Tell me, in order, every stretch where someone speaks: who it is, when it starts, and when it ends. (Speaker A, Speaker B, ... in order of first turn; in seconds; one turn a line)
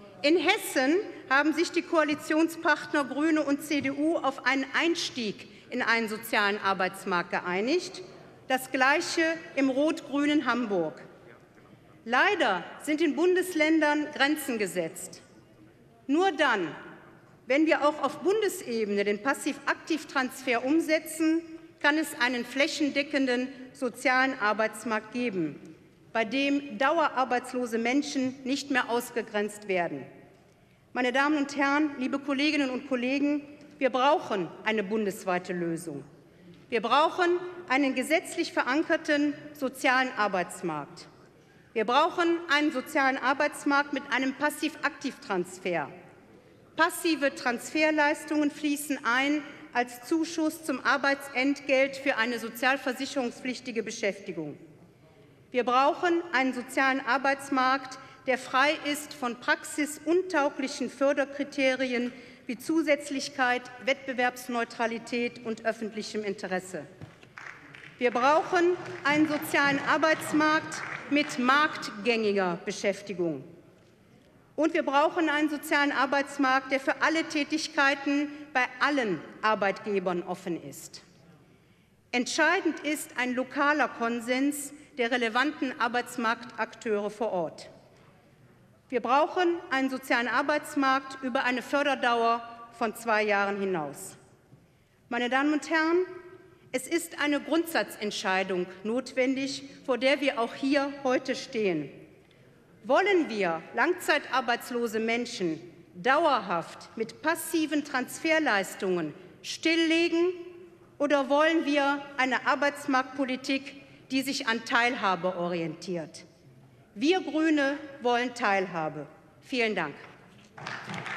Speaker A: 0.2-11.0
Speaker A: 12.1-15.2
Speaker A: 16.1-16.8
Speaker A: 17.5-25.6
Speaker A: 26.1-30.1
Speaker A: 30.9-36.0
Speaker A: 36.7-41.1
Speaker A: 41.7-45.9
Speaker A: 46.8-54.6
Speaker A: 55.5-66.8
Speaker A: 68.0-73.5
Speaker A: 74.6-81.0
Speaker A: 82.1-87.7
Speaker A: 88.9-94.2
Speaker A: 95.1-96.1
Speaker A: 96.7-101.9
Speaker A: 102.8-110.4
Speaker A: 111.0-116.2
Speaker A: 116.9-120.0